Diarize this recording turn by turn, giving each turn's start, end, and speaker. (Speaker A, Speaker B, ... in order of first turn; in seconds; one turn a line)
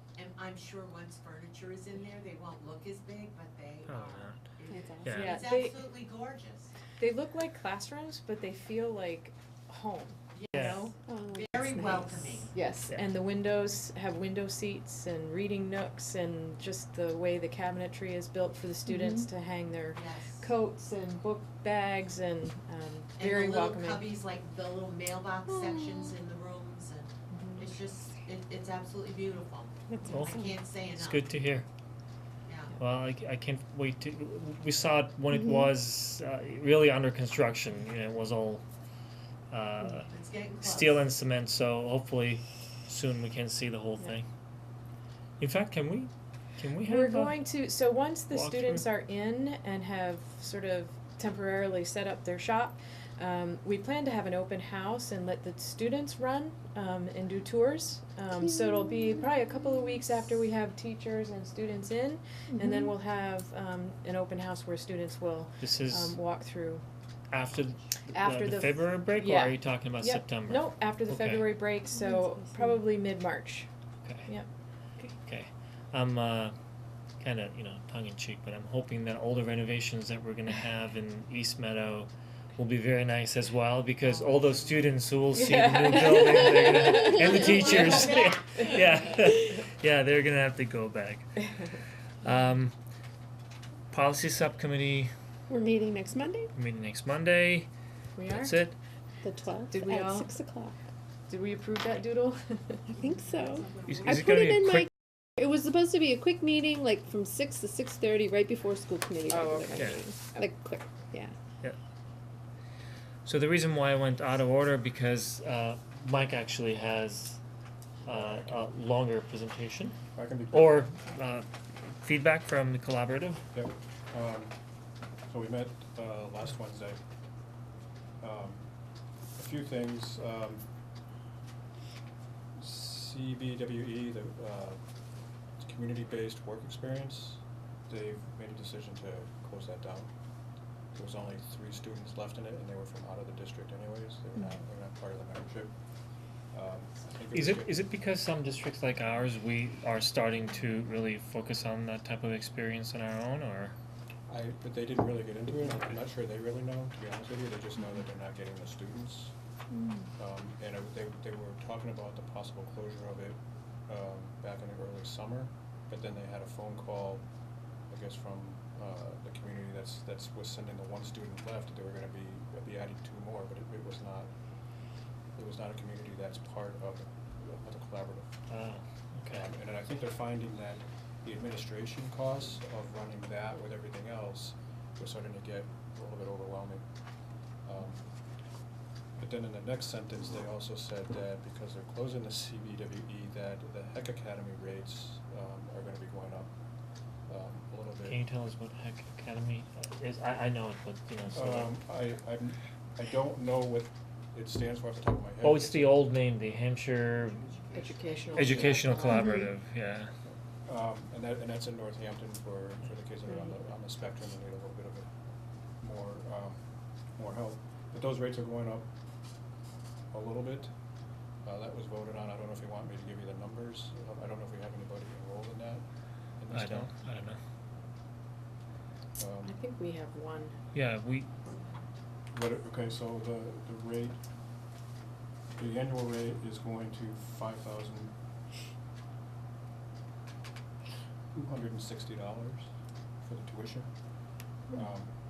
Speaker A: 0.1-6.7
Speaker B: 3.9-4.4
Speaker C: 4.7-5.2
Speaker B: 5.0-5.4
Speaker D: 5.1-5.8
Speaker D: 7.0-10.9
Speaker A: 10.3-12.5
Speaker B: 10.5-10.9
Speaker C: 11.1-12.9
Speaker D: 12.9-24.1
Speaker C: 18.9-19.3
Speaker A: 19.9-20.5
Speaker A: 23.2-31.3
Speaker C: 25.5-26.1
Speaker C: 29.9-30.6
Speaker B: 30.1-30.4
Speaker B: 30.9-31.7
Speaker A: 32.5-32.8
Speaker B: 32.8-38.6
Speaker C: 35.3-35.7
Speaker B: 39.5-40.1
Speaker A: 40.1-41.0
Speaker B: 40.6-44.3
Speaker B: 45.4-47.4
Speaker D: 46.8-66.8
Speaker B: 48.3-48.9
Speaker C: 58.3-60.1
Speaker C: 62.5-63.0
Speaker B: 65.6-66.2
Speaker B: 67.3-71.6
Speaker A: 67.4-67.8
Speaker D: 68.1-73.7
Speaker C: 71.9-72.8
Speaker B: 74.0-74.3
Speaker B: 75.2-76.5
Speaker B: 77.2-91.7
Speaker A: 84.0-84.9
Speaker D: 85.3-87.3
Speaker C: 86.5-87.2
Speaker A: 87.1-88.9
Speaker B: 92.2-92.7
Speaker B: 93.9-95.1
Speaker C: 95.5-96.5
Speaker B: 96.5-97.7
Speaker D: 98.2-98.5
Speaker B: 98.3-98.8
Speaker C: 99.2-100.8
Speaker D: 99.7-100.3
Speaker D: 101.3-102.8
Speaker C: 102.9-111.3
Speaker A: 103.1-104.3
Speaker B: 103.8-104.9
Speaker D: 109.3-110.5
Speaker B: 109.7-110.0
Speaker B: 113.2-117.4
Speaker E: 118.0-118.6
Speaker B: 118.0-120.0
Speaker E: 120.1-120.8
Speaker B: 120.5-121.5
Speaker B: 122.0-123.4
Speaker E: 123.5-124.5
Speaker E: 125.3-127.0
Speaker E: 128.2-128.6
Speaker E: 129.3-130.6
Speaker E: 132.6-134.8
Speaker E: 135.6-140.1
Speaker E: 140.9-145.7
Speaker E: 146.5-147.8
Speaker B: 147.3-153.7
Speaker E: 154.3-159.3
Speaker C: 159.8-160.1
Speaker E: 160.2-167.2
Speaker E: 167.9-174.3
Speaker E: 175.3-178.3
Speaker B: 178.5-179.5
Speaker E: 179.3-186.8
Speaker E: 187.6-188.0
Speaker E: 189.2-196.5
Speaker E: 197.3-198.2
Speaker B: 198.0-201.7
Speaker E: 201.3-206.0
Speaker B: 205.4-207.5
Speaker A: 207.2-208.9
Speaker D: 207.7-209.3
Speaker B: 208.3-210.1
Speaker C: 209.1-209.5
Speaker E: 210.2-215.1
Speaker E: 215.8-216.6
Speaker E: 217.2-218.9
Speaker E: 220.1-220.7
Speaker E: 221.4-225.8
Speaker E: 226.4-226.9
Speaker B: 226.5-227.4
Speaker E: 229.2-229.6
Speaker D: 229.4-230.6
Speaker B: 230.7-231.3
Speaker E: 232.3-234.2
Speaker E: 235.6-238.1
Speaker E: 241.3-242.7
Speaker E: 243.2-243.9
Speaker E: 244.7-245.1